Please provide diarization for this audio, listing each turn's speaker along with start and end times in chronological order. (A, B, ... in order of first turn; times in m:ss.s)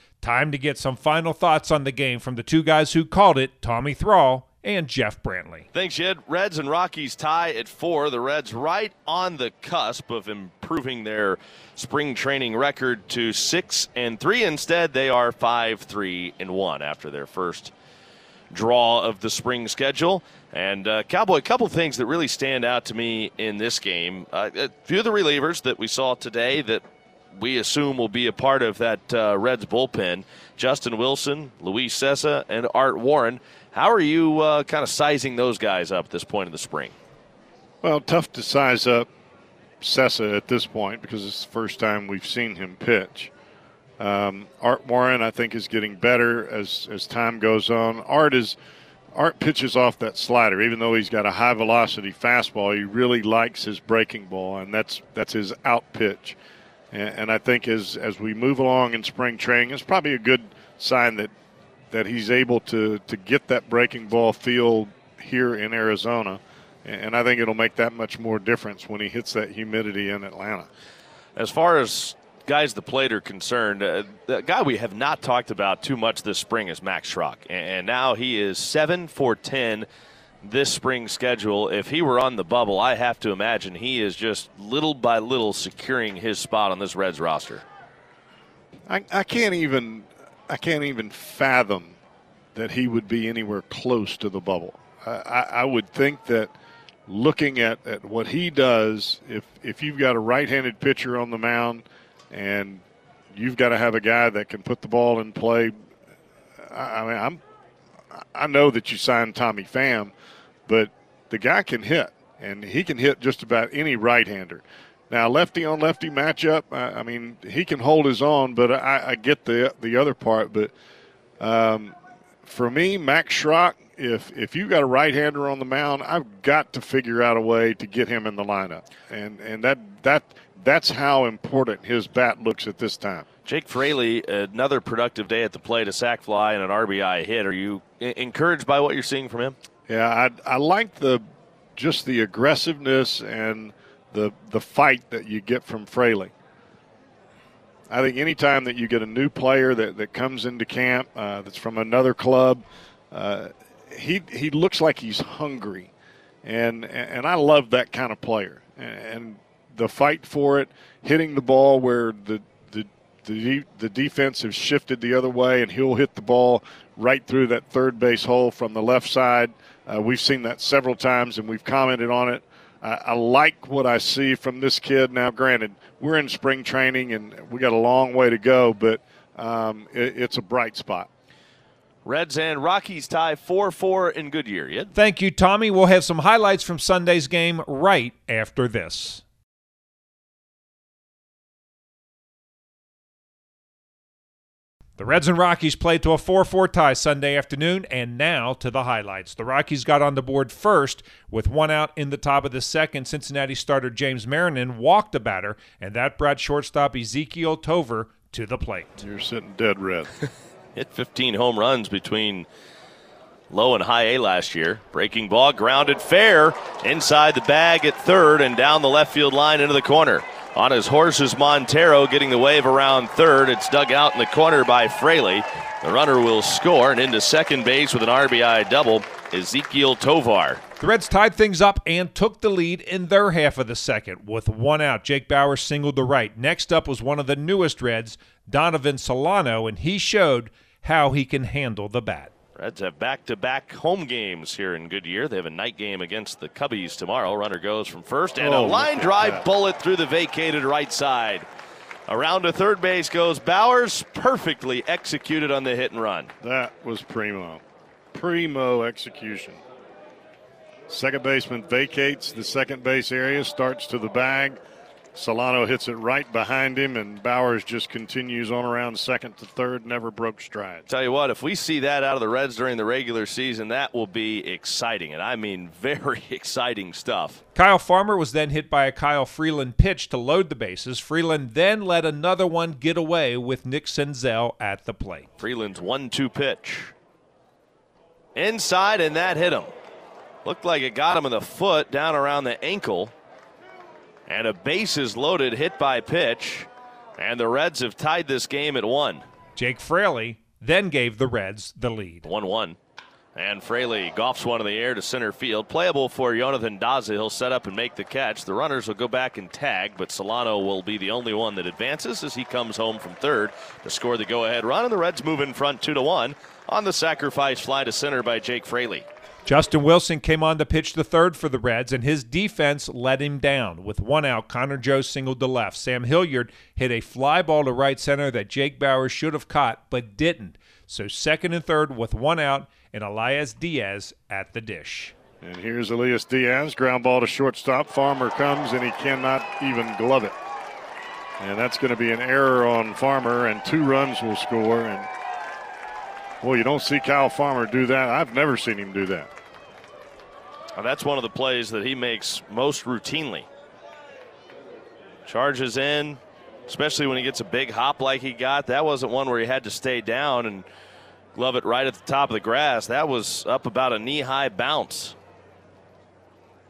0:00.2-0:05.7 A
0:05.7-0:17.7 B
0:18.5-0:26.8 B
0:27.4-0:37.0 B
0:37.8-0:39.1 C
0:39.8-0:43.3 C
0:44.0-0:48.6 C
0:49.1-0:56.4 C
0:56.9-1:01.3 C
1:01.9-1:10.7 C
1:11.4-1:19.9 B
1:20.4-1:27.6 B
1:28.9-1:32.0 C
1:32.6-1:36.5 C
1:37.1-1:45.7 C
1:46.7-1:47.4 C
1:48.2-1:50.1 C
1:50.7-2:00.7 C
2:01.4-2:13.2 C
2:13.4-2:19.6 B
2:19.9-2:21.2 C
2:21.8-2:26.3 C
2:27.9-2:35.9 C
2:36.4-3:01.1 C
3:02.0-3:04.9 B
3:05.0-3:09.2 A
3:15.0-3:29.0 A
3:29.0-3:30.1 C
3:30.8-3:32.5 B
3:33.5-3:50.6 B
3:50.8-4:02.3 A
4:02.6-4:11.5 B
4:08.4-4:09.4 C
4:12.1-4:16.3 B
4:16.4-4:17.6 C
4:18.1-4:19.6 C
4:20.9-4:24.6 C
4:25.2-4:30.9 C
4:30.9-4:37.4 B
4:37.6-4:45.3 A
4:45.4-4:46.9 B
4:48.4-4:49.7 B
4:50.4-4:53.1 B
4:54.3-4:59.2 B
4:59.6-5:02.3 A
5:02.2-5:02.8 B
5:03.4-5:19.1 B
5:19.5-5:35.2 A
5:35.4-5:40.4 C
5:41.4-5:45.1 C
5:46.4-5:49.3 C
5:50.8-5:53.5 B
5:55.3-6:00.7 B
6:01.4-6:05.2 B